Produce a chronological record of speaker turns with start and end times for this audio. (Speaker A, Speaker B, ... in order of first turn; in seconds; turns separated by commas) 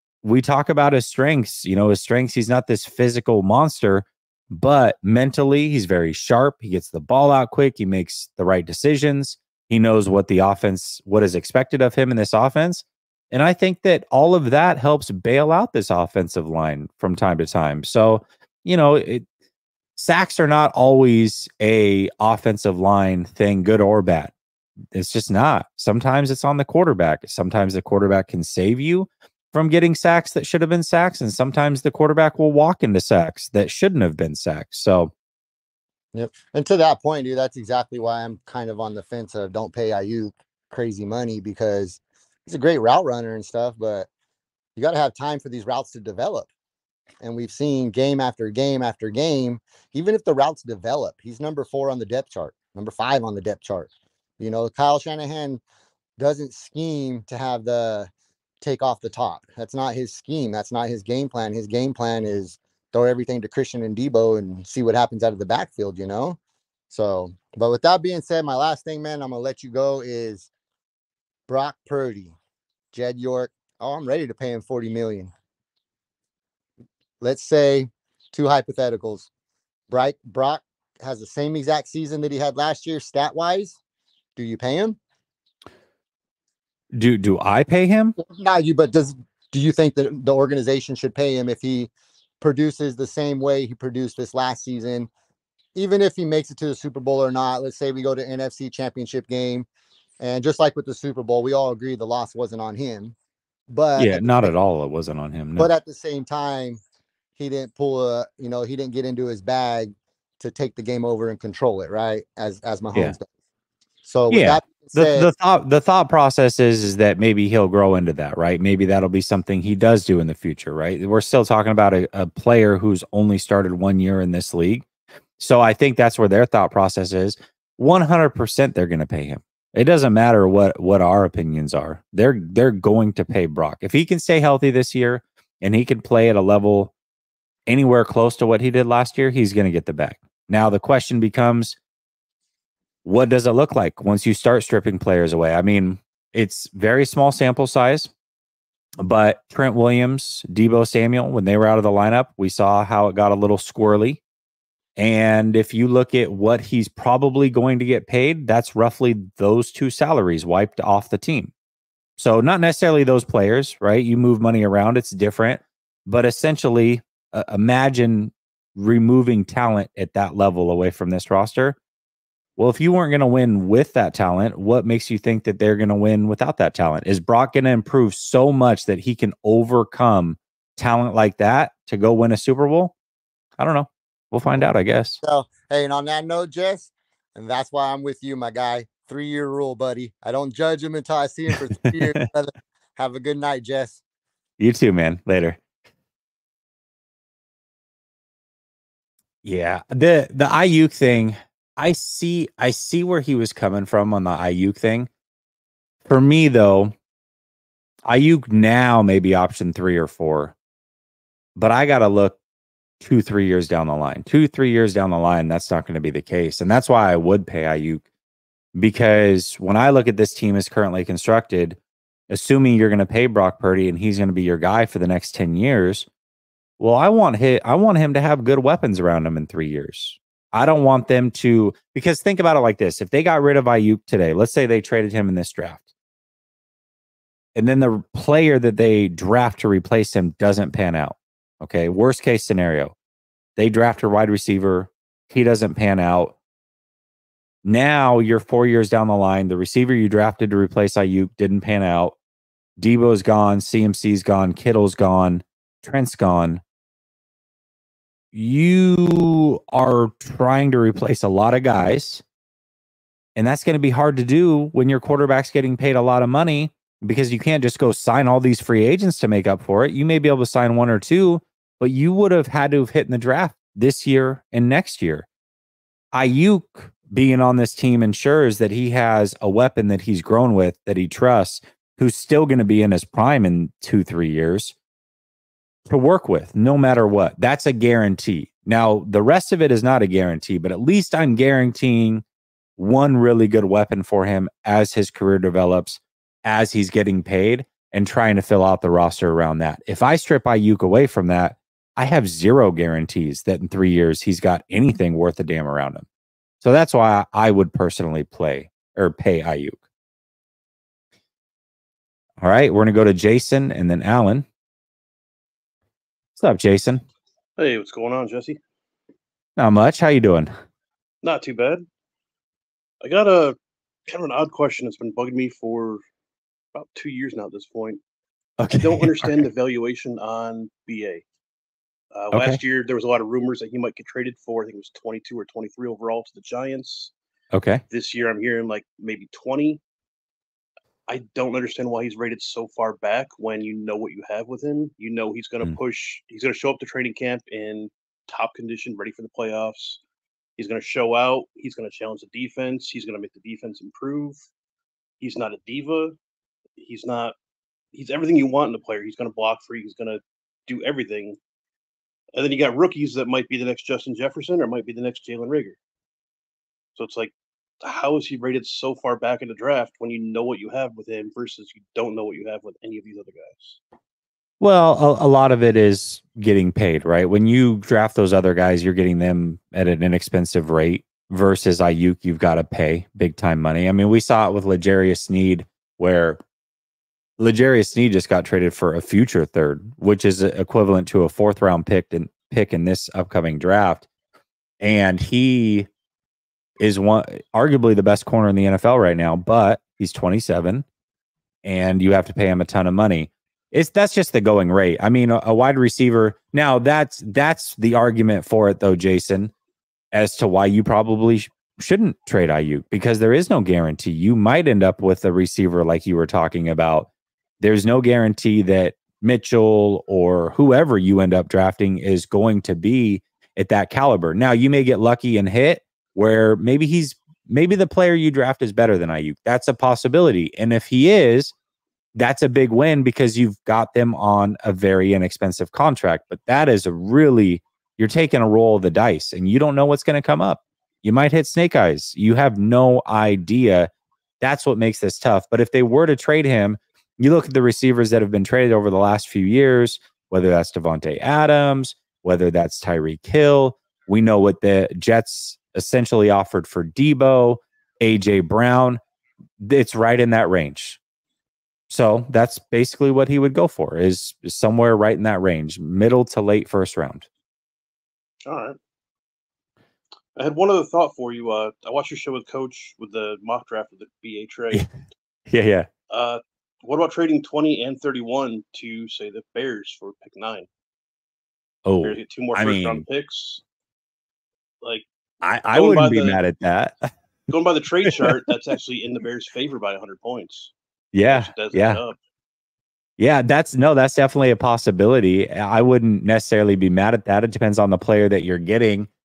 Speaker A: 0.2-19.2, Speaker A: 20.0-24.3, Speaker A: 24.9-35.1, Speaker B: 36.1-44.1, Speaker B: 44.8-46.5, Speaker B: 47.2-55.6, Speaker B: 56.2-58.1, Speaker B: 58.6-66.4, Speaker B: 66.9-70.5, Speaker B: 71.5-72.3, Speaker B: 72.9-75.3, Speaker B: 77.2-79.3, Speaker B: 79.9-83.8, Speaker B: 84.4-85.0, Speaker A: 86.9-88.2, Speaker B: 88.2-91.9, Speaker B: 92.4-95.1, Speaker B: 95.8-99.7, Speaker B: 100.2-103.2, Speaker B: 103.7-104.5, Speaker A: 104.0-105.7, Speaker B: 105.6-106.8, Speaker B: 107.4-113.3, Speaker B: 114.0-115.3, Speaker A: 114.3-124.8, Speaker A: 125.4-136.9, Speaker A: 137.7-141.8, Speaker A: 143.1-148.1, Speaker A: 149.0-154.2, Speaker A: 155.0-161.5, Speaker A: 162.2-171.8, Speaker A: 172.6-182.9, Speaker A: 183.6-185.2, Speaker B: 185.2-194.0, Speaker A: 191.9-192.2, Speaker A: 194.6-195.6, Speaker A: 199.4-205.1, Speaker A: 206.1-206.9, Speaker A: 208.1-210.5, Speaker A: 211.6-212.4, Speaker A: 213.0-218.0, Speaker A: 218.8-221.8, Speaker A: 222.3-226.1, Speaker A: 226.8-235.8, Speaker A: 237.6-242.9, Speaker A: 243.6-246.3, Speaker A: 247.7-252.2, Speaker A: 252.8-256.6, Speaker A: 258.3-262.2, Speaker A: 263.4-275.3, Speaker A: 276.1-284.8, Speaker A: 285.9-292.2, Speaker A: 292.8-306.1, Speaker A: 306.6-309.8, Speaker A: 312.4-314.4, Speaker A: 316.4-317.0, Speaker C: 317.6-318.6, Speaker A: 319.6-320.5, Speaker C: 321.2-321.9, Speaker C: 323.0-323.6, Speaker C: 324.1-326.0, Speaker C: 326.7-328.0, Speaker A: 328.6-329.4, Speaker C: 328.8-331.2, Speaker C: 332.1-337.1, Speaker A: 332.3-332.6, Speaker A: 337.5-337.8, Speaker C: 337.9-339.8, Speaker C: 341.1-350.0, Speaker C: 350.6-354.4, Speaker C: 355.2-356.2, Speaker C: 356.8-357.4, Speaker C: 357.9-361.4, Speaker C: 362.4-365.8, Speaker C: 367.0-373.8, Speaker A: 374.6-386.4, Speaker A: 387.4-394.1, Speaker A: 394.8-395.9, Speaker A: 396.8-400.9, Speaker A: 401.6-409.5, Speaker A: 410.1-417.1, Speaker A: 417.6-431.5, Speaker A: 432.2-443.9, Speaker A: 444.4-459.0, Speaker A: 459.6-461.0, Speaker A: 461.9-467.3, Speaker C: 468.5-468.8, Speaker C: 470.4-474.9, Speaker A: 475.5-475.9, Speaker C: 476.1-480.7, Speaker A: 481.9-483.0, Speaker C: 482.0-483.6, Speaker A: 485.4-487.1, Speaker C: 485.7-486.4, Speaker C: 487.5-490.7, Speaker A: 491.1-492.0, Speaker C: 491.3-492.2, Speaker A: 493.2-499.1